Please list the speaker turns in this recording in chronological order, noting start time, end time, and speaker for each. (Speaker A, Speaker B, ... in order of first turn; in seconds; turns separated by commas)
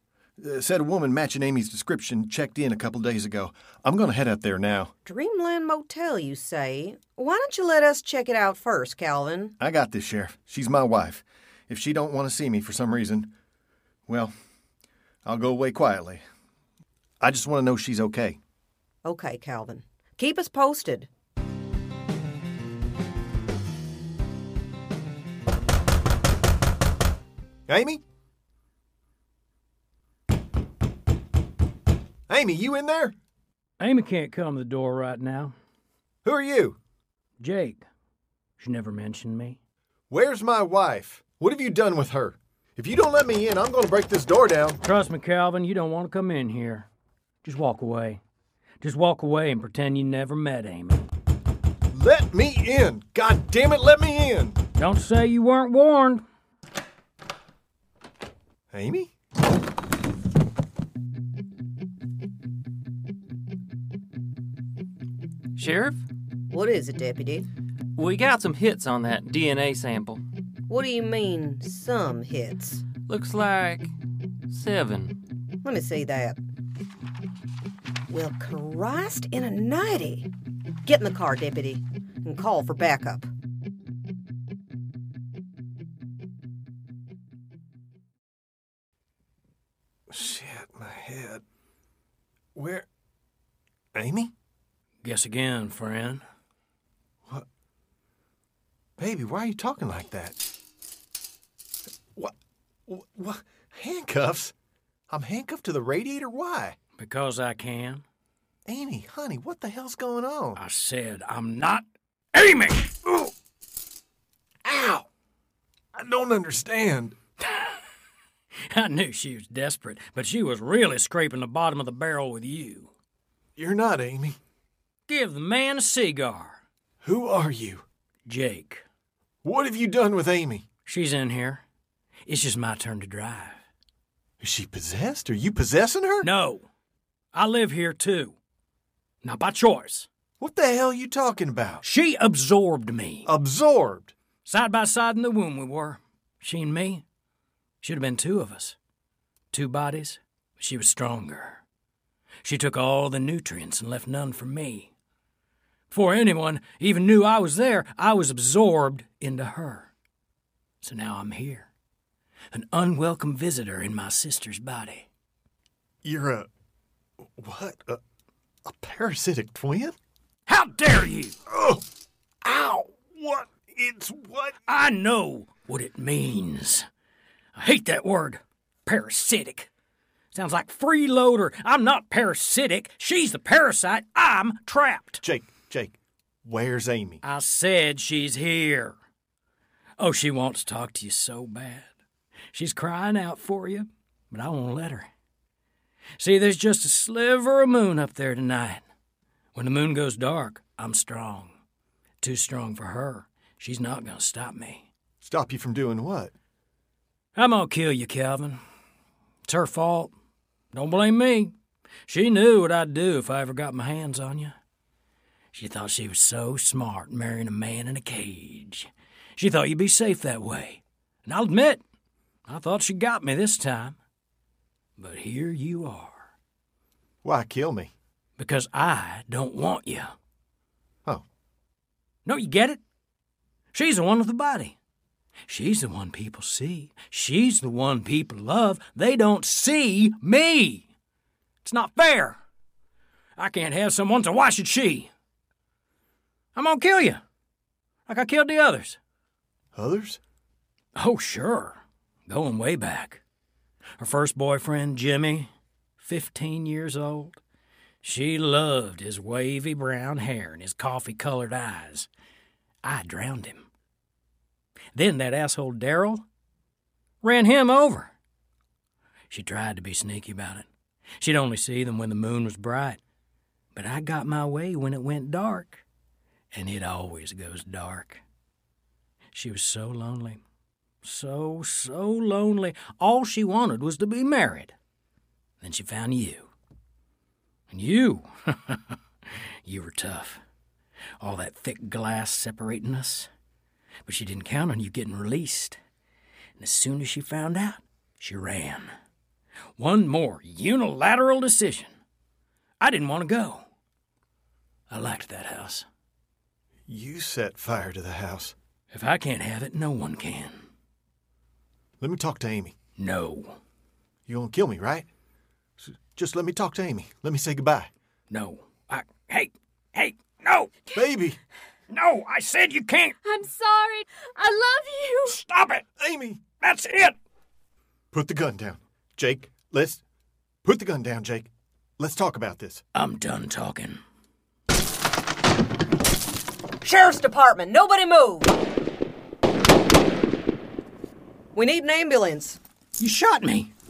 Speaker A: 0.4-4.9, Speaker B: 5.1-9.5, Speaker A: 9.6-13.3, Speaker A: 14.1-14.3, Speaker A: 15.2-16.2, Speaker A: 17.2-18.4, Speaker B: 19.1-21.1, Speaker A: 27.7-28.0, Speaker A: 32.3-33.1, Speaker C: 33.8-35.5, Speaker A: 36.2-36.8, Speaker C: 37.4-37.8, Speaker C: 38.6-39.6, Speaker A: 40.1-44.8, Speaker C: 44.8-46.9, Speaker C: 47.4-48.2, Speaker C: 48.8-51.0, Speaker A: 51.9-54.6, Speaker C: 54.8-56.2, Speaker A: 58.7-59.1, Speaker D: 65.6-66.0, Speaker B: 66.5-67.5, Speaker D: 68.0-70.2, Speaker B: 70.7-72.8, Speaker D: 73.1-73.9, Speaker D: 74.5-75.2, Speaker B: 75.6-76.4, Speaker B: 78.1-80.3, Speaker B: 80.8-83.3, Speaker A: 90.1-91.4, Speaker A: 92.5-92.9, Speaker A: 94.0-94.3, Speaker C: 95.0-96.2, Speaker A: 99.0-100.4, Speaker A: 102.9-104.5, Speaker A: 105.1-106.8, Speaker C: 107.0-108.0, Speaker A: 108.7-110.6, Speaker C: 110.5-113.3, Speaker A: 114.6-115.0, Speaker A: 116.0-117.2, Speaker C: 118.7-122.9, Speaker A: 123.6-124.4, Speaker C: 125.1-126.6, Speaker A: 127.0-127.8, Speaker C: 128.3-128.8, Speaker A: 129.4-130.7, Speaker C: 130.8-131.6, Speaker C: 132.3-133.6, Speaker A: 134.4-136.3, Speaker C: 136.2-136.7, Speaker C: 137.3-138.3, Speaker C: 139.2-140.1, Speaker A: 140.4-141.8, Speaker C: 141.8-143.3, Speaker A: 143.3-144.1, Speaker C: 144.4-147.0, Speaker C: 147.8-148.8, Speaker C: 149.5-151.6, Speaker C: 152.4-154.9, Speaker C: 155.9-159.9, Speaker C: 160.8-161.7, Speaker C: 162.5-165.1, Speaker A: 166.0-166.5, Speaker A: 167.4-168.0, Speaker A: 168.7-170.0, Speaker C: 170.5-171.4, Speaker A: 171.5-171.8, Speaker A: 172.4-174.6, Speaker C: 174.7-176.9, Speaker C: 177.6-179.7, Speaker C: 180.3-185.2, Speaker A: 185.2-187.2, Speaker C: 187.2-188.9, Speaker C: 190.0-191.9, Speaker C: 192.5-195.1, Speaker C: 196.2-198.8, Speaker C: 199.6-201.5, Speaker C: 202.2-204.9, Speaker A: 205.2-206.3, Speaker C: 207.3-208.6, Speaker C: 209.5-210.1, Speaker C: 210.7-211.5, Speaker C: 212.1-214.6, Speaker C: 215.5-221.8, Speaker C: 222.5-224.0, Speaker C: 225.0-226.3, Speaker A: 227.2-227.9, Speaker C: 228.4-230.1, Speaker C: 232.2-232.8, Speaker C: 233.7-234.8, Speaker C: 235.5-240.9, Speaker C: 241.6-242.4, Speaker C: 243.4-245.1, Speaker C: 246.6-247.2, Speaker C: 248.1-249.0, Speaker A: 249.8-250.2, Speaker C: 251.0-253.2, Speaker C: 254.0-257.4, Speaker C: 258.0-262.1, Speaker C: 262.8-263.7, Speaker C: 264.9-266.2, Speaker C: 267.2-268.1, Speaker C: 269.3-270.7, Speaker C: 271.2-273.0, Speaker C: 273.8-275.8, Speaker C: 276.5-278.2, Speaker C: 279.3-280.4, Speaker C: 281.0-284.7, Speaker C: 285.6-286.5, Speaker C: 287.7-290.4, Speaker C: 291.2-293.3, Speaker C: 294.1-295.8, Speaker C: 296.6-298.9, Speaker C: 299.8-301.9, Speaker C: 302.8-303.6, Speaker C: 304.9-305.9, Speaker A: 306.9-308.5, Speaker C: 308.9-310.6, Speaker A: 312.0-312.8, Speaker C: 313.0-313.6, Speaker A: 314.3-315.1, Speaker A: 315.8-317.9, Speaker C: 318.3-320.8, Speaker A: 320.9-321.4, Speaker C: 321.9-323.1, Speaker E: 323.2-325.4, Speaker C: 325.3-325.8, Speaker A: 326.0-326.6, Speaker C: 326.6-327.2, Speaker A: 328.1-330.0, Speaker A: 330.6-332.8, Speaker C: 332.9-334.0, Speaker B: 336.8-338.6, Speaker B: 341.6-342.6, Speaker C: 343.0-343.7